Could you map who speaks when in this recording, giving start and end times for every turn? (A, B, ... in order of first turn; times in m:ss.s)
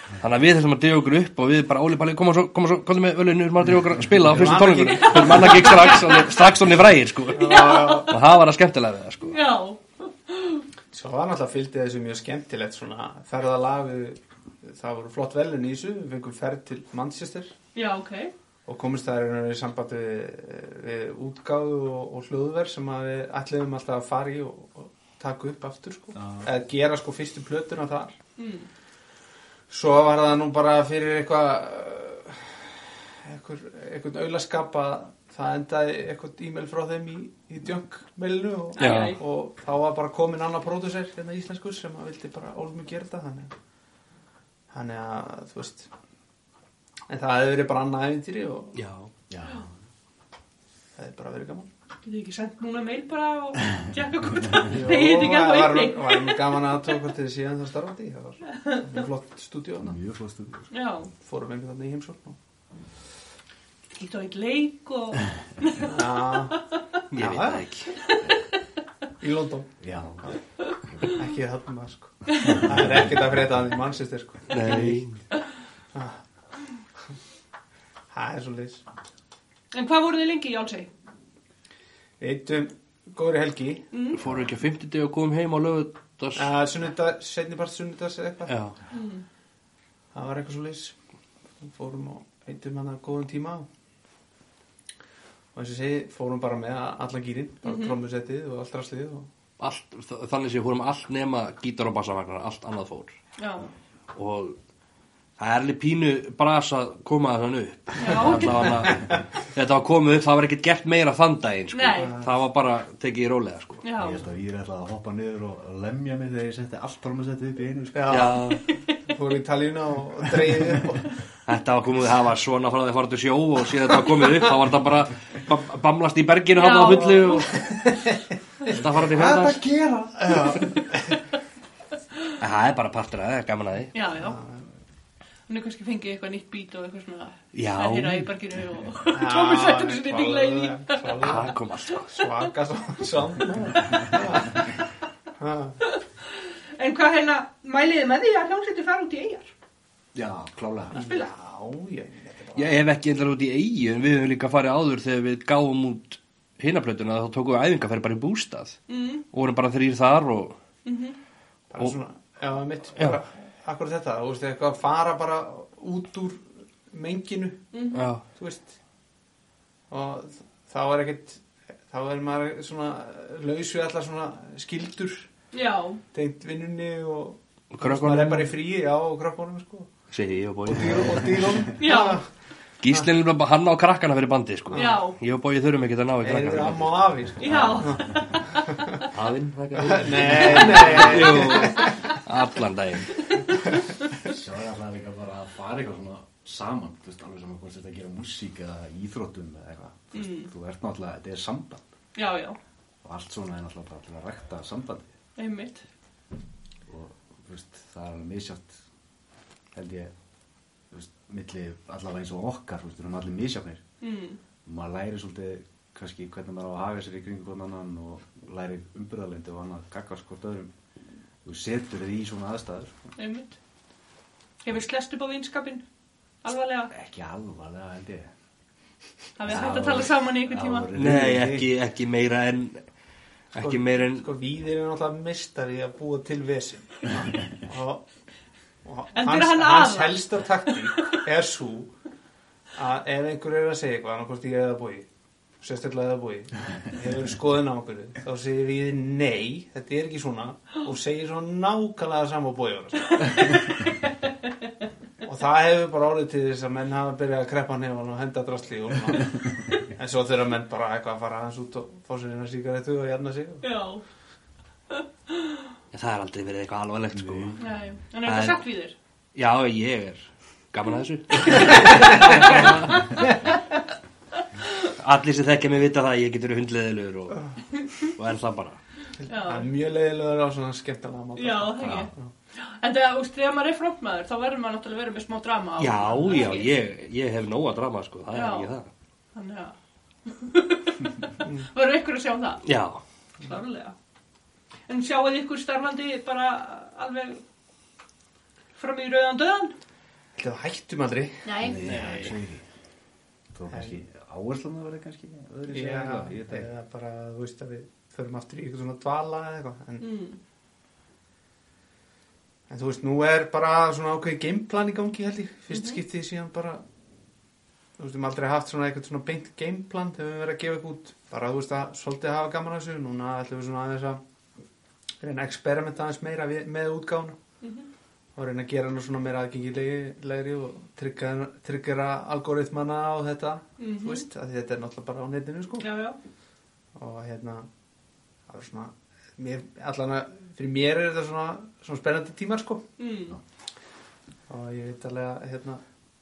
0:00.2-0:09.4 A
0:04.3-0:06.0 B
0:04.9-0:06.4 C
0:07.3-0:08.1 B
0:07.3-0:08.1 C
0:09.3-0:10.6 C
0:10.9-0:17.5 B
0:17.7-0:18.3 C
0:18.6-0:28.2 B
0:26.2-0:26.5 D
0:28.4-0:28.7 C
0:29.7-0:32.6 B
0:33.2-0:43.5 B
0:38.8-0:39.2 C
0:38.8-0:39.2 A
0:44.7-0:45.9 B
0:47.1-0:48.8 B
0:48.7-0:49.1 A
0:49.3-0:49.7 D
0:51.0-0:51.7 B
0:52.0-0:56.7 C
0:54.6-0:59.9 B
0:58.5-0:58.8 C
0:59.8-1:00.7 D
1:00.7-1:01.1 C
1:01.2-1:02.4 B
1:03.9-1:06.0 C
1:05.8-1:06.6 B
1:07.1-1:08.0 A
1:07.1-1:07.7 B
1:09.2-1:09.7 B
1:09.8-1:10.4 D
1:11.0-1:15.0 B
1:14.5-1:15.2 A
1:15.9-1:16.2 B
1:18.1-1:18.8 B
1:19.7-1:20.9 C
1:22.2-1:23.9 B
1:23.9-1:24.2 C
1:24.1-1:26.5 A
1:26.4-1:28.6 B
1:28.5-1:28.8 A
1:28.9-1:29.2 C
1:30.1-1:30.9 B
1:31.6-1:33.7 B
1:35.5-1:39.3 B
1:37.6-1:38.0 C
1:39.6-1:43.1 A
1:43.4-1:43.7 C
1:44.1-1:44.6 A
1:45.4-1:53.8 A
1:48.0-1:48.9 C
1:51.7-1:52.2 C
1:52.0-1:52.3 B
1:53.8-1:54.2 C
1:54.0-1:58.3 D
1:57.9-2:01.2 B
1:58.1-1:58.6 A
1:58.5-1:59.0 C
2:01.4-2:07.7 A
2:06.5-2:07.5 C
2:07.5-2:08.2 B
2:08.6-2:09.6 A
2:08.7-2:11.2 B
2:12.4-2:13.9 A
2:13.9-2:14.4 C
2:14.1-2:14.6 B
2:15.5-2:21.3 C
2:17.5-2:18.3 A
2:19.1-2:24.7 B
2:21.2-2:22.1 A
2:25.4-2:25.8 B
2:26.8-2:29.5 C
2:30.1-2:31.0 D
2:30.9-2:31.3 C
2:30.9-2:32.8 B
2:32.6-2:38.8 A
2:38.9-2:39.2 C
2:39.3-2:40.6 A
2:40.8-2:41.2 C
2:41.7-2:47.6 B
2:47.7-2:48.1 C
2:47.9-2:48.2 A
2:48.4-2:48.8 B
2:49.9-2:55.3 B
2:55.5-2:56.0 C
2:56.1-2:59.9 B
2:57.7-2:58.5 A
3:00.1-3:01.4 A
3:00.7-3:02.2 B
3:01.7-3:02.2 C
3:02.8-3:07.7 A
3:04.7-3:05.0 B
3:04.7-3:05.2 C
3:06.2-3:09.0 B
3:07.4-3:08.1 C
3:07.4-3:08.4 D
3:09.1-3:13.2 A
3:09.7-3:12.1 B
3:10.4-3:10.9 C
3:13.2-3:13.7 C
3:14.2-3:21.8 D
3:20.1-3:20.5 C
3:22.1-3:22.6 C
3:23.0-3:25.1 D
3:25.4-3:25.8 C
3:26.9-3:28.8 D
3:29.7-3:30.1 D
3:30.9-3:33.8 D
3:34.0-3:34.4 C
3:34.6-3:40.7 D
3:41.4-3:43.1 D
3:43.2-3:43.6 C
3:44.6-3:45.8 C
3:46.4-3:46.9 C
3:46.9-3:48.3 D
3:49.4-3:50.9 C
3:49.4-3:51.7 D
3:50.9-3:52.8 A
3:53.5-3:54.3 A
3:53.6-3:58.0 B
3:58.8-4:01.9 B
3:59.1-4:01.2 C
4:02.7-4:05.0 B
4:05.6-4:13.8 B
4:15.2-4:23.6 B
4:23.6-4:24.0 C
4:24.9-4:25.7 C
4:25.9-4:27.6 A
4:27.1-4:27.8 D
4:27.6-4:29.0 C
4:28.2-4:28.6 A
4:29.3-4:33.0 A
4:31.4-4:33.2 C
4:32.1-4:32.7 B
4:34.9-4:38.8 A
4:39.3-4:39.7 C
4:39.3-4:42.3 B
4:41.4-4:46.7 C
4:41.8-4:42.1 D
4:45.8-4:48.9 A
4:48.3-4:48.7 C
4:49.3-4:52.6 C
4:52.6-4:53.0 A
4:53.4-4:53.9 C
4:54.9-4:57.4 C
4:58.8-4:59.7 C
5:00.4-5:01.5 B
5:01.4-5:02.0 C
5:01.6-5:02.6 D
5:01.8-5:02.4 A
5:03.5-5:06.7 D
5:03.7-5:04.0 B
5:05.7-5:10.0 B
5:10.0-5:10.4 C
5:12.7-5:16.8 B
5:15.7-5:16.0 C
5:18.0-5:24.2 B
5:25.2-5:27.4 B
5:27.6-5:27.9 C
5:28.4-5:35.9 B
5:33.8-5:34.3 C
5:35.8-5:36.2 C
5:36.9-5:37.7 B
5:38.5-5:42.8 B
5:43.0-5:43.4 C
5:44.5-5:45.8 B